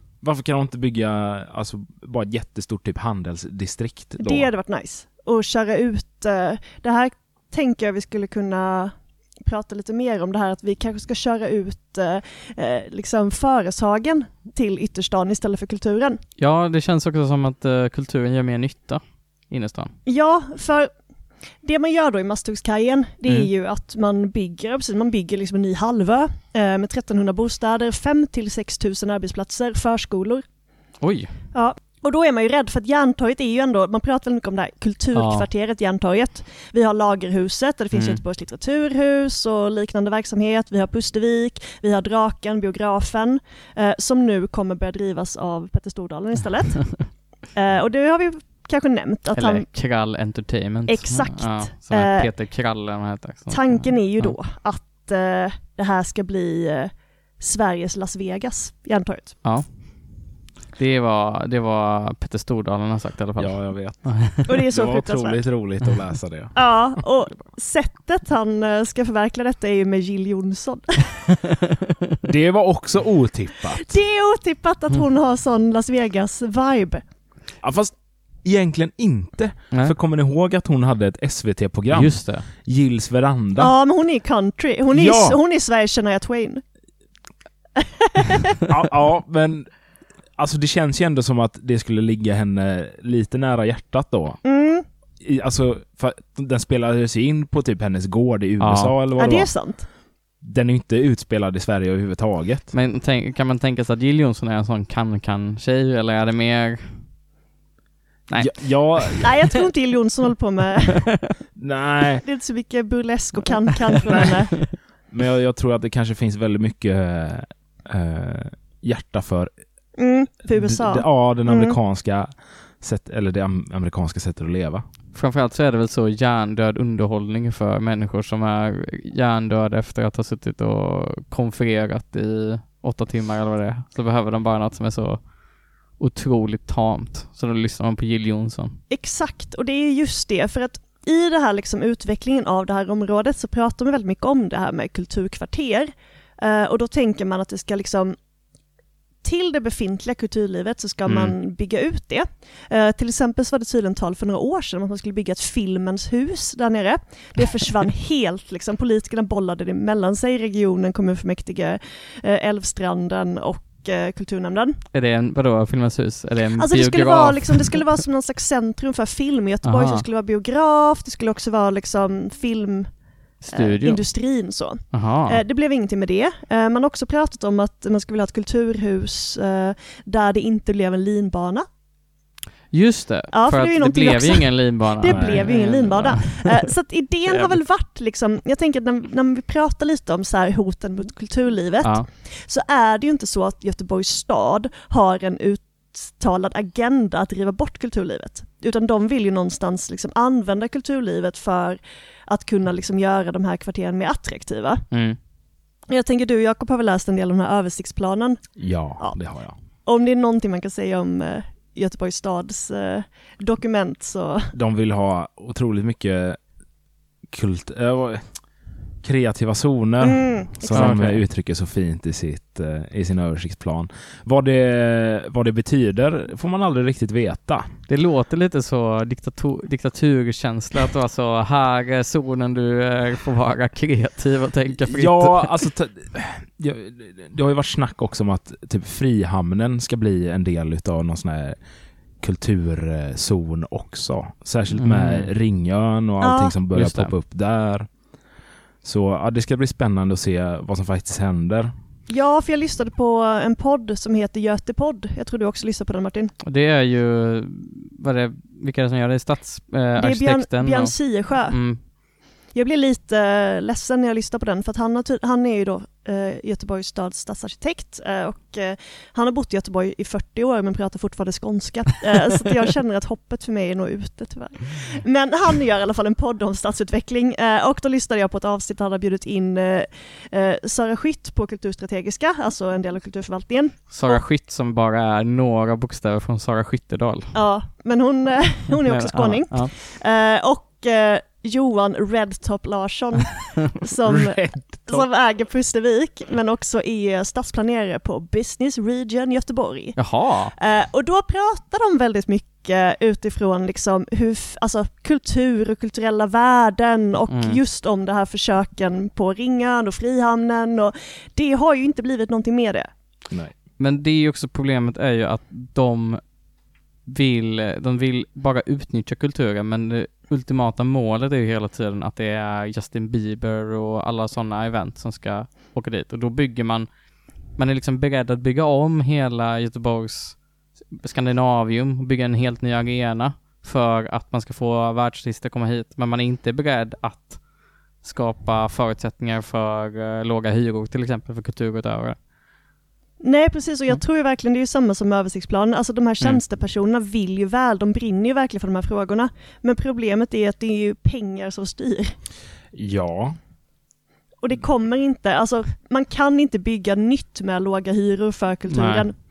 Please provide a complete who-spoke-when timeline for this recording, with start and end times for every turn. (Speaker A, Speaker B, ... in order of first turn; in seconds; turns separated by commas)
Speaker A: 0.2-4.5, Speaker B: 4.2-8.9, Speaker B: 9.4-16.2, Speaker C: 16.4-19.9, Speaker B: 20.1-20.9, Speaker B: 21.6-30.4, Speaker C: 31.0-31.3, Speaker B: 31.5-49.7, Speaker C: 35.1-35.5, Speaker C: 37.9-38.2, Speaker C: 49.3-54.4, Speaker B: 50.9-52.3, Speaker B: 53.5-59.4, Speaker C: 60.8-64.5, Speaker A: 63.4-66.5, Speaker B: 64.5-65.5, Speaker B: 66.5-71.2, Speaker A: 72.2-74.0, Speaker B: 73.9-77.0, Speaker A: 77.6-83.7, Speaker C: 81.9-82.5, Speaker B: 83.6-86.6, Speaker A: 84.9-85.4, Speaker B: 87.8-88.5, Speaker A: 88.7-89.7, Speaker A: 90.4-94.4, Speaker B: 94.4-94.8, Speaker A: 95.2-99.5, Speaker C: 98.6-98.9, Speaker B: 99.2-99.9, Speaker A: 100.4-102.7, Speaker C: 102.7-107.0, Speaker C: 108.3-109.3, Speaker A: 108.4-109.3, Speaker B: 109.2-111.0, Speaker A: 111.6-112.2, Speaker B: 112.2-114.5, Speaker A: 115.1-119.5, Speaker B: 120.0-121.8, Speaker A: 120.5-124.8, Speaker C: 125.1-135.2, Speaker C: 136.0-138.8, Speaker B: 138.9-148.2, Speaker B: 149.2-164.8, Speaker C: 151.1-151.3, Speaker C: 164.9-167.8, Speaker B: 166.6-172.9, Speaker C: 169.6-170.0, Speaker C: 173.4-174.0, Speaker B: 173.5-181.7, Speaker C: 174.9-175.4, Speaker C: 182.7-186.5, Speaker B: 183.3-204.8, Speaker A: 185.1-186.2, Speaker C: 187.3-187.6, Speaker C: 204.9-205.2, Speaker B: 205.9-208.4, Speaker A: 208.6-209.6, Speaker B: 209.9-214.5, Speaker A: 214.5-216.4, Speaker A: 217.3-218.2, Speaker A: 219.0-227.7, Speaker B: 220.0-221.0, Speaker C: 220.7-221.2, Speaker C: 227.9-235.6, Speaker A: 234.8-241.6, Speaker A: 242.2-247.9, Speaker C: 244.8-245.3, Speaker B: 246.2-246.5, Speaker C: 246.7-247.1, Speaker A: 248.8-251.7, Speaker B: 252.1-256.3, Speaker C: 256.4-261.8, Speaker B: 260.0-261.6, Speaker B: 262.5-284.2, Speaker C: 283.9-287.3, Speaker B: 287.3-300.0, Speaker C: 288.9-289.7, Speaker A: 294.1-295.1, Speaker C: 300.0-300.5, Speaker B: 300.6-312.9, Speaker C: 307.3-307.6, Speaker C: 313.8-316.2, Speaker C: 317.1-326.9, Speaker C: 327.6-330.4, Speaker C: 331.0-337.4, Speaker C: 338.0-342.2, Speaker B: 343.2-352.1, Speaker A: 352.7-353.4, Speaker B: 354.4-359.1, Speaker C: 358.7-359.1